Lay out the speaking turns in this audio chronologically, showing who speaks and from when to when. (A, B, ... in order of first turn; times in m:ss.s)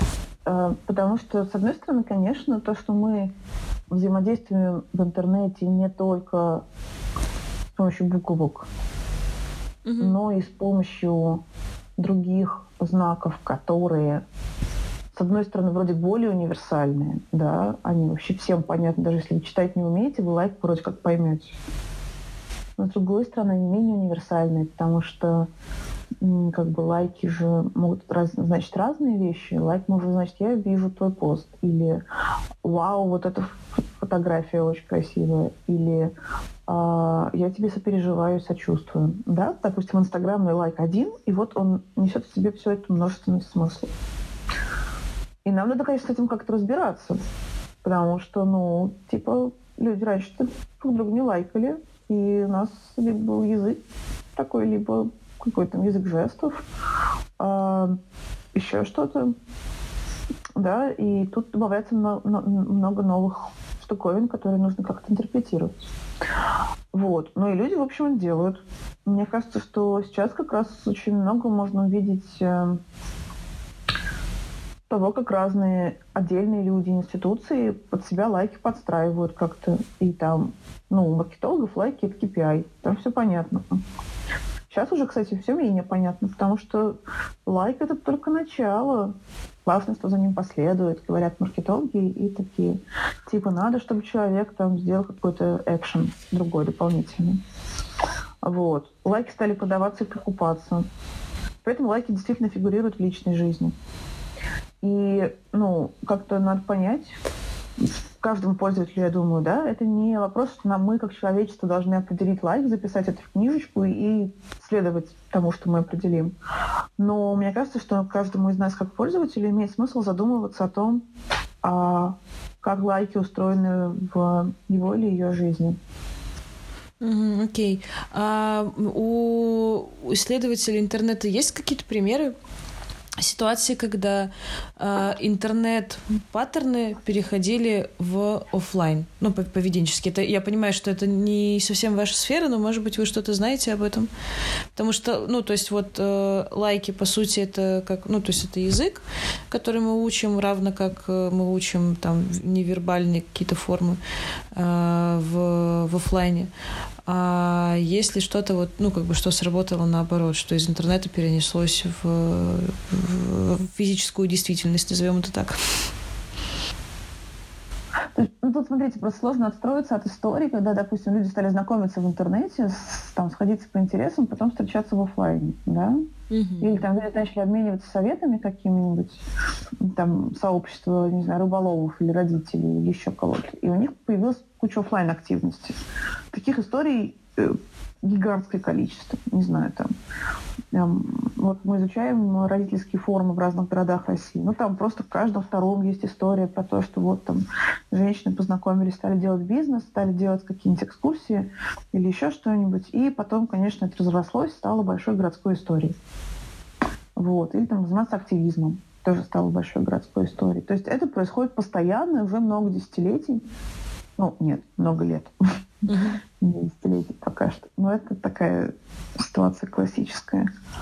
0:00.4-0:03.3 A
0:03.9-0:06.6 A
0:07.7-0:08.7 A
0:09.8-0:10.2 B
0:10.0-0:11.4 A
0:12.0-0:14.2 A
0:15.1-0:21.5 A
0:22.8-0:25.5 A
0:26.2-0:32.0 A
0:32.6-0:36.1 A
0:36.7-0:43.9 A
0:45.4-0:47.2 A
0:47.8-0:53.8 A
0:54.3-0:56.6 A
0:57.4-0:58.0 A
0:58.5-0:59.3 A
1:00.6-1:05.8 A
1:06.9-1:12.8 A
1:14.9-1:23.8 A
1:24.7-1:37.4 A
1:38.4-1:40.8 A
1:41.6-1:43.7 A
1:44.8-1:47.2 A
1:48.2-1:56.3 A
1:57.0-2:01.0 A
2:01.6-2:05.8 A
2:07.0-2:12.3 B
2:13.2-2:24.1 B
2:24.7-2:34.0 B
2:34.5-2:36.5 B
2:37.0-2:45.6 B
2:48.1-2:56.0 A
2:56.3-2:56.8 B
2:56.6-2:59.2 A
2:59.8-3:05.8 A
3:06.3-3:09.9 A
3:10.7-3:26.0 A
3:27.2-3:33.4 A
3:34.2-3:35.3 A
3:35.9-3:36.2 B
3:36.4-3:40.4 A